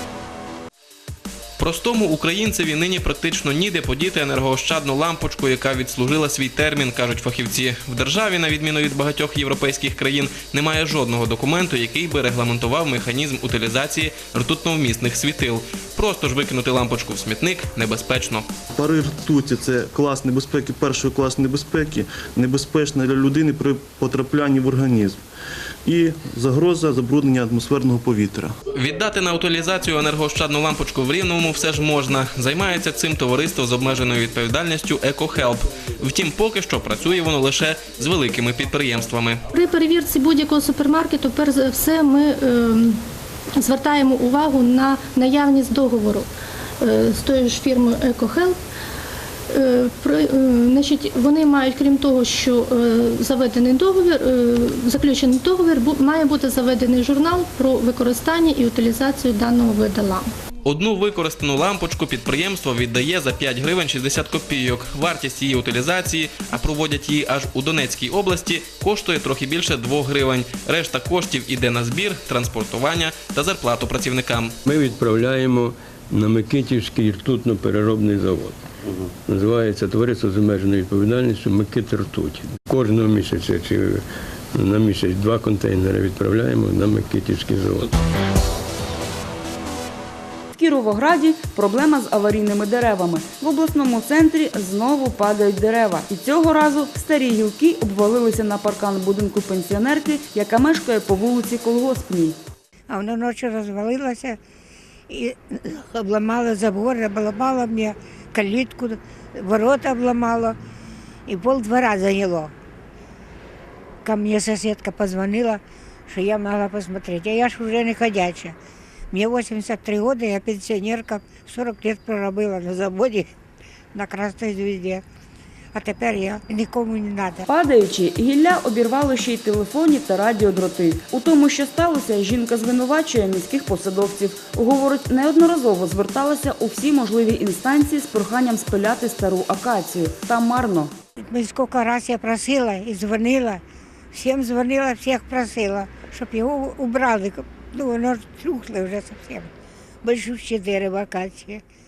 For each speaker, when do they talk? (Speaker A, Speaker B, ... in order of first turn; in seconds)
Speaker A: 1.6-18.4, 28.7-39.4, 60.6-74.5
Speaker B: 18.7-25.2, 25.8-28.5
Speaker C: 39.5-43.0, 43.6-46.3, 46.8-48.6, 49.5-60.3
Speaker D: 74.7-84.0, 84.5-87.9
Speaker E: 90.5-102.4, 127.5-140.9
Speaker F: 102.9-104.4, 105.1-110.5, 111.3-112.5, 114.0-118.5, 119.1-123.3, 123.9-125.0, 125.7-127.4, 141.2-143.6, 144.1-149.5, 150.0-151.6